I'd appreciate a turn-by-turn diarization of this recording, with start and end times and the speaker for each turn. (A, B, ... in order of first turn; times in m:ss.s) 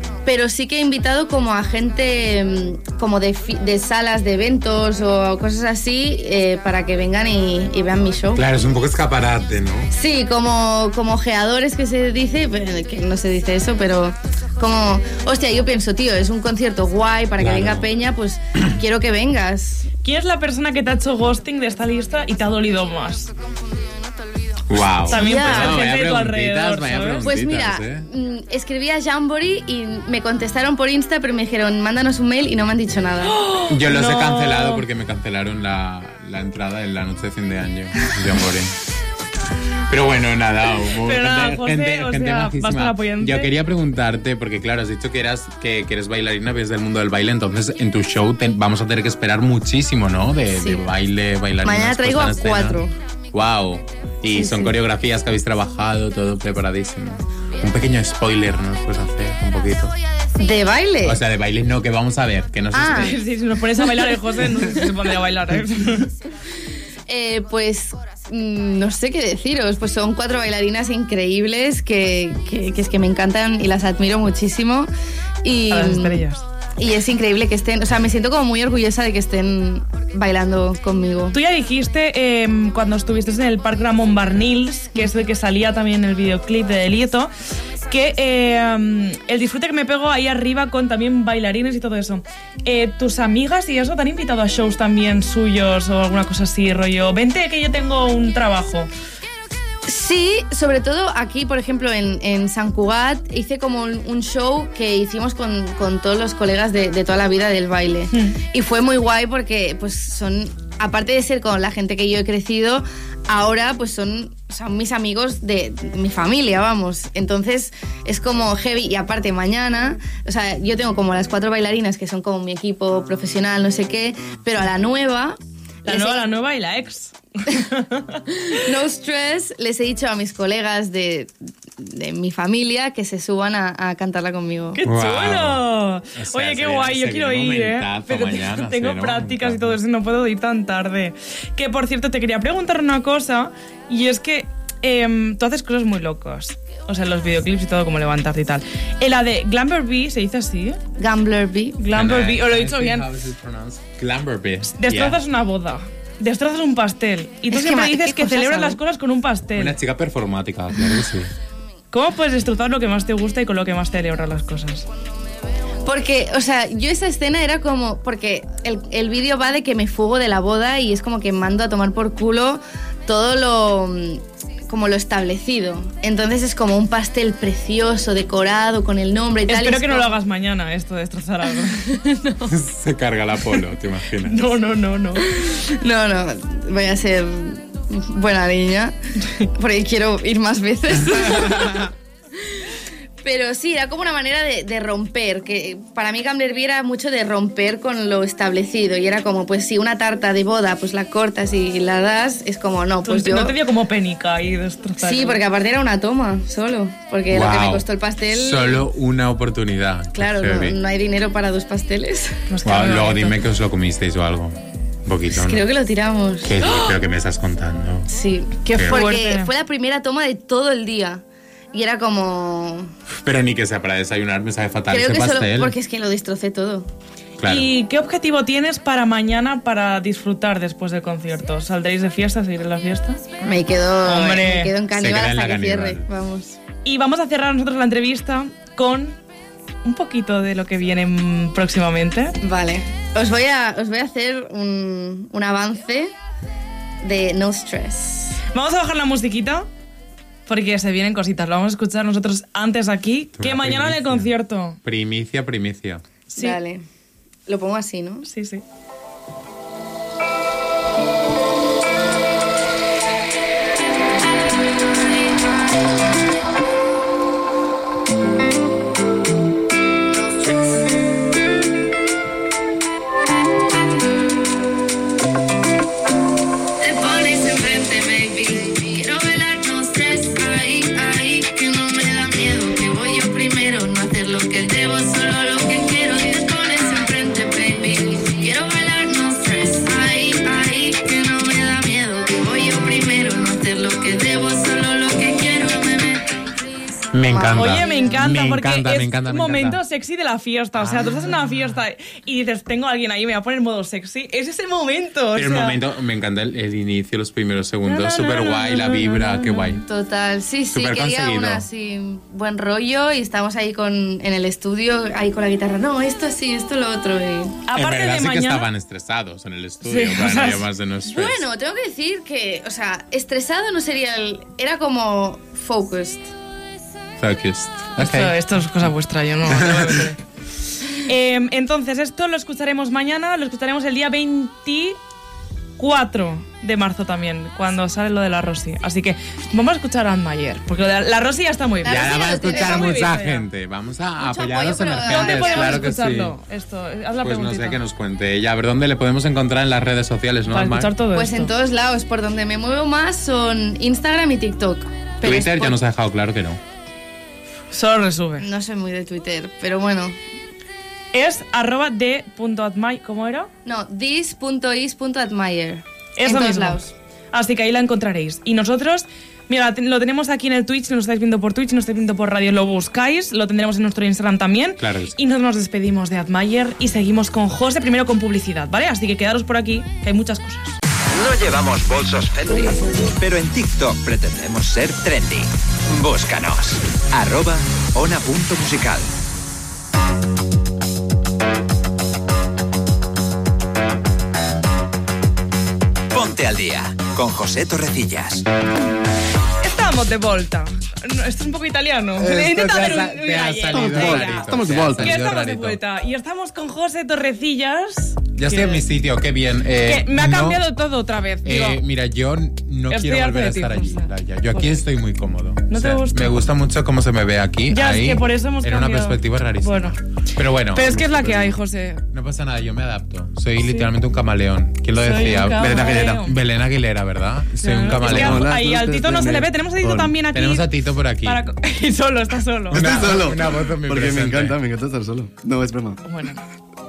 0:00.2-0:08.4 A
0:08.3-0:09.9 B
0:09.9-0:19.9 A
0:17.4-0:17.9 B
0:20.0-0:23.3 C
0:24.7-0:28.1 B
0:25.1-0:27.3 C
0:25.1-0:25.8 A
0:27.2-0:33.4 A
0:33.2-0:34.8 C
0:33.7-0:38.7 B
0:39.9-0:52.8 B
0:41.0-0:43.5 C
0:50.5-0:50.8 A
0:51.6-0:52.9 A
0:53.3-0:59.9 B
0:54.3-0:54.7 A
1:00.4-1:01.2 A
1:01.0-1:03.2 B
1:02.7-1:03.2 A
1:02.9-1:06.1 C
1:04.0-1:04.8 A
1:07.1-1:14.9 A
1:15.4-1:16.2 A
1:15.7-1:16.4 C
1:16.8-1:21.4 A
1:21.3-1:27.3 C
1:27.9-1:38.9 C
1:39.8-2:06.3 A
2:05.8-2:08.2 C
2:08.5-2:14.8 A
2:14.7-2:30.8 C
2:14.8-2:15.6 B
2:16.1-2:19.8 B
2:31.0-2:31.8 A
2:31.8-2:33.0 C
2:31.9-2:35.2 B
2:34.8-2:39.8 C
2:37.5-2:38.8 A
2:39.5-2:41.3 B
2:41.9-2:44.8 C
2:45.8-3:00.1 A
2:59.5-3:02.2 C
3:02.5-3:04.5 B
3:04.2-3:05.3 C
3:05.2-3:08.9 A
3:09.5-3:11.9 A
3:13.2-3:23.6 A
3:23.0-3:25.4 C
3:25.0-3:28.8 A
3:27.3-3:30.8 B
3:30.1-3:32.4 A
3:32.5-3:33.4 C
3:32.6-3:35.7 B
3:35.3-3:36.6 A
3:36.4-3:38.1 B
3:38.1-3:42.9 A
3:38.7-3:39.0 B
3:38.8-3:39.5 C
3:43.1-3:45.7 B
3:44.9-3:46.9 A
3:47.4-3:47.7 B
3:47.4-3:53.2 C
3:53.4-3:56.6 A
3:54.0-3:54.7 C
3:54.9-3:56.1 B
3:56.8-3:59.2 C
3:59.8-4:02.4 C
4:02.4-4:06.1 A
4:07.0-4:08.4 A
4:08.5-4:09.7 C
4:10.5-4:14.8 C
4:13.4-4:14.3 B
4:14.8-4:16.0 B
4:16.3-4:16.6 C
4:16.3-4:16.8 A
4:17.5-4:18.2 A
4:18.2-4:18.6 C
4:30.2-4:30.6 D
4:36.8-4:56.2 D
4:57.1-4:59.8 B
4:57.3-4:57.9 A
4:57.6-5:05.8 C
5:00.8-5:01.8 B
5:05.3-5:09.8 B
5:07.8-5:09.8 C
5:09.8-5:17.6 A
5:10.7-5:11.6 B
5:17.7-5:18.7 C
5:17.7-5:21.4 B
5:19.8-5:20.6 C
5:21.1-5:26.3 A
5:27.2-5:28.4 B
5:28.0-5:30.2 C
5:29.5-5:30.0 B
5:30.9-5:35.0 C
5:35.8-5:43.4 C
5:41.8-5:43.1 A
5:41.8-5:46.4 B
5:44.2-5:45.8 A
5:45.0-5:47.8 C
5:47.2-5:50.9 B
5:50.5-5:51.5 C
5:51.1-5:55.8 A
5:55.2-5:56.6 B
5:57.7-5:58.4 C
5:58.4-6:00.2 A
6:01.1-6:03.5 C
6:03.6-6:06.9 A
6:06.2-6:06.8 C
6:07.3-6:20.8 C
6:14.8-6:15.1 B
6:21.1-6:29.1 E
6:36.1-6:38.4 E
6:39.6-6:48.9 C
6:42.2-6:45.8 B
6:43.7-6:45.2 F
6:48.4-6:50.6 B
6:49.8-6:51.8 C
6:51.4-7:01.4 B
6:52.9-6:54.8 C
6:55.7-6:56.4 C
6:57.7-7:00.0 C
7:00.7-7:02.0 C
7:02.1-7:08.5 B
7:05.0-7:06.4 C
7:05.6-7:06.2 F
7:07.6-7:10.7 C
7:08.0-7:10.1 F
7:10.2-7:11.4 B
7:11.2-7:13.0 C
7:12.7-7:16.0 F
7:12.7-7:14.6 B
7:16.0-7:16.4 C